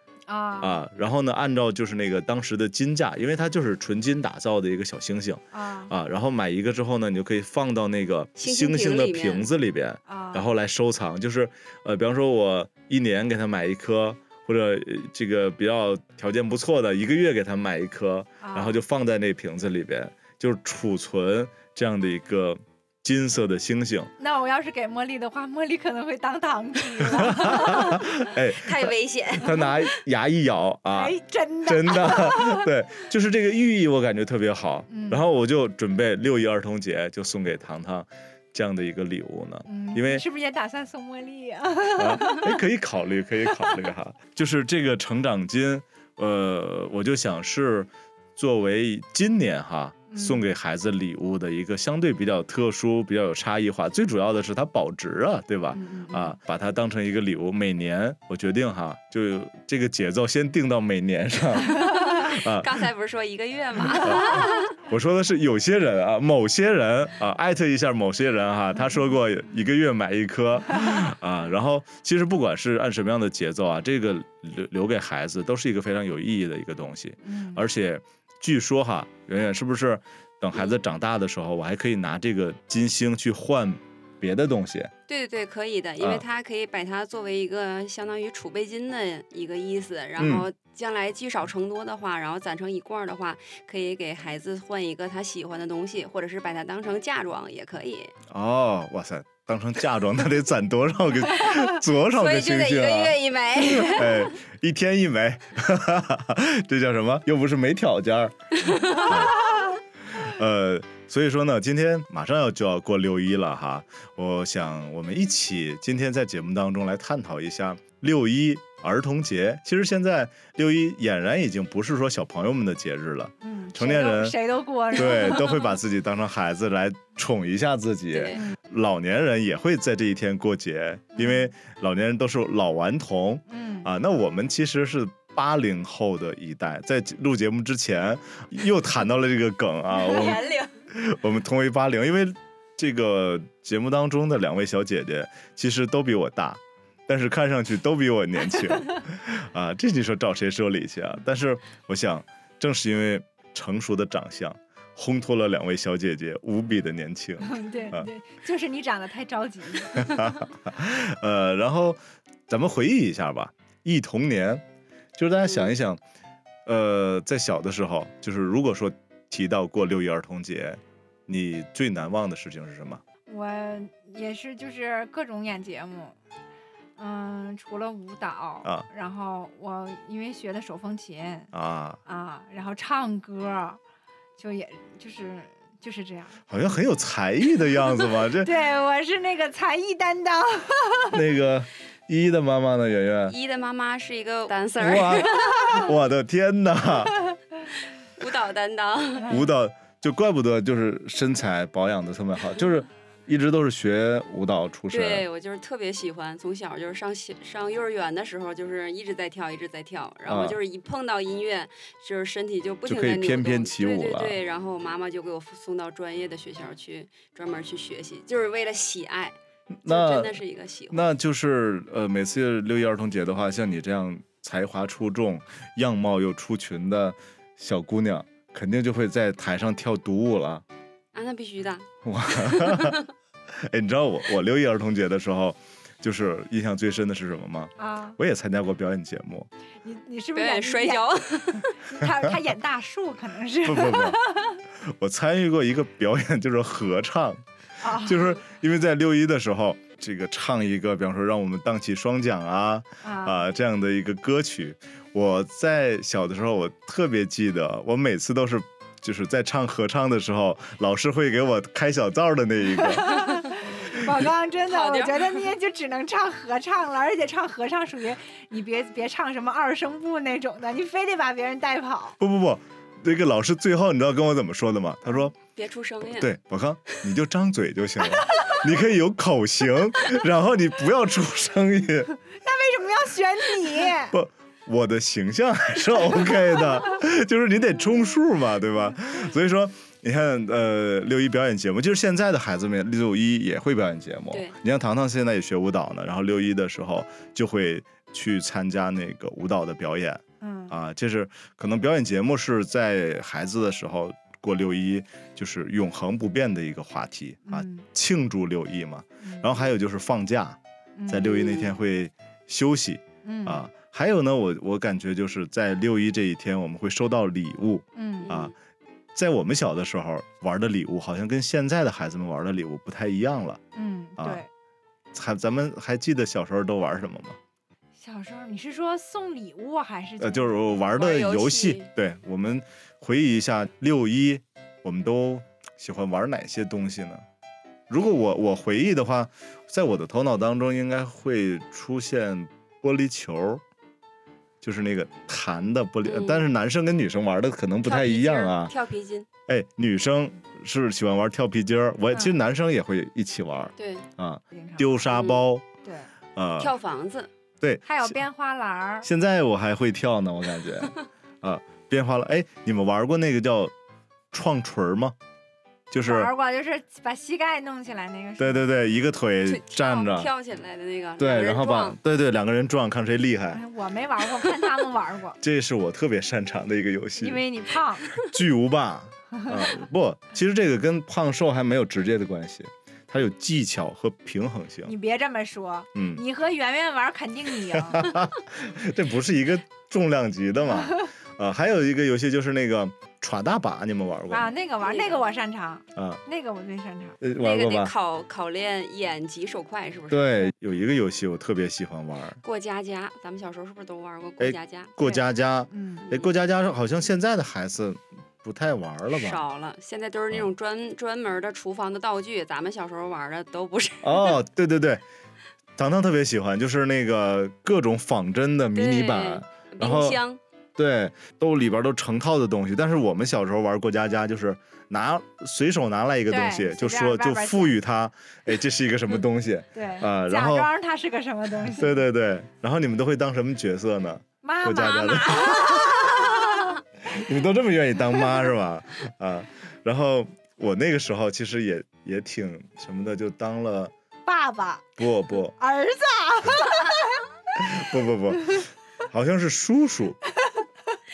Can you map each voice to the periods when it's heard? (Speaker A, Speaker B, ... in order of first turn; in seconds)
Speaker A: 0.3-0.8, 5.5-5.9, 10.1-10.4, 18.4-18.8, 24.2-28.1, 30.9-32.7, 34.9-35.2, 39.7-42.6, 50.1-50.5, 55.7-56.4, 77.2-77.6, 123.4-125.6, 131.1-131.5, 133.5-133.9, 157.4-160.3, 173.3-176.2, 177.0-181.5, 182.1-183.8, 184.4-186.4, 188.4-191.2, 237.8-238.2, 239.8-241.1, 241.8-244.6, 247.8-248.4, 253.0-253.4, 262.8-272.2, 278.3-278.6, 282.3-284.2, 300.4-300.8, 307.4-307.9, 309.2-309.5, 311.0-311.3, 313.2-313.6, 317.9-318.4, 323.7-324.5, 328.0-330.6, 354.5-355.0, 355.8-356.1, 357.8-359.1, 366.0-368.7, 373.5-375.4, 377.1-378.1, 379.4-379.6, 384.8-388.1, 394.3-397.2, 405.7-406.1, 426.3-427.8, 429.7-432.0, 434.4-436.8, 444.2-444.9, 445.6-447.2
Speaker B: 0.6-24.1, 27.0-40.2, 41.9-62.9, 64.0-84.9, 90.2-90.5, 98.3-109.4, 110.2-124.4, 124.9-158.1, 159.9-164.6, 165.2-166.0, 166.7-173.0, 181.5-182.0, 186.5-188.5, 191.1-193.3, 194.8-197.1, 199.2-205.2, 210.3-210.6, 212.8-214.4, 219.8-220.4, 220.9-230.6, 232.0-233.0, 233.5-239.5, 242.0-242.3, 243.6-244.2, 244.8-263.1, 272.2-275.3, 276.0-282.1, 284.1-318.5, 319.1-323.6, 324.2-324.4, 325.1-327.4, 330.2-337.2, 337.9-343.6, 344.6-348.7, 349.5-355.6, 356.4-356.7, 357.6-358.2, 359.0-363.7, 364.3-365.1, 365.9-366.3, 368.4-370.3, 371.2-373.6, 375.4-377.4, 378.1-384.9, 385.9-386.2, 387.7-394.5, 397.2-397.9, 400.1-402.4, 404.4-409.4, 414.0-415.0, 415.8-420.2, 420.8-430.7, 431.6-435.9, 437.0-443.9, 445.0-445.5, 447.6-450.2
Speaker C: 8.4-9.5, 28.5-29.9, 62.0-64.7, 85.1-98.1, 102.1-104.3, 108.6-109.2, 128.1-128.4, 139.9-140.8, 193.3-195.9, 198.2-199.3, 204.9-219.3, 219.8-221.1, 231.1-233.1, 240.3-241.8, 264.7-265.4, 275.5-276.3, 311.2-311.8, 318.2-318.5, 330.9-331.9, 346.0-346.4, 347.8-349.3, 353.8-354.1, 355.1-355.4, 356.6-357.3, 369.4-372.0, 394.8-395.2, 397.4-400.5, 402.4-405.2, 406.0-406.3, 409.1-414.4, 418.7-420.4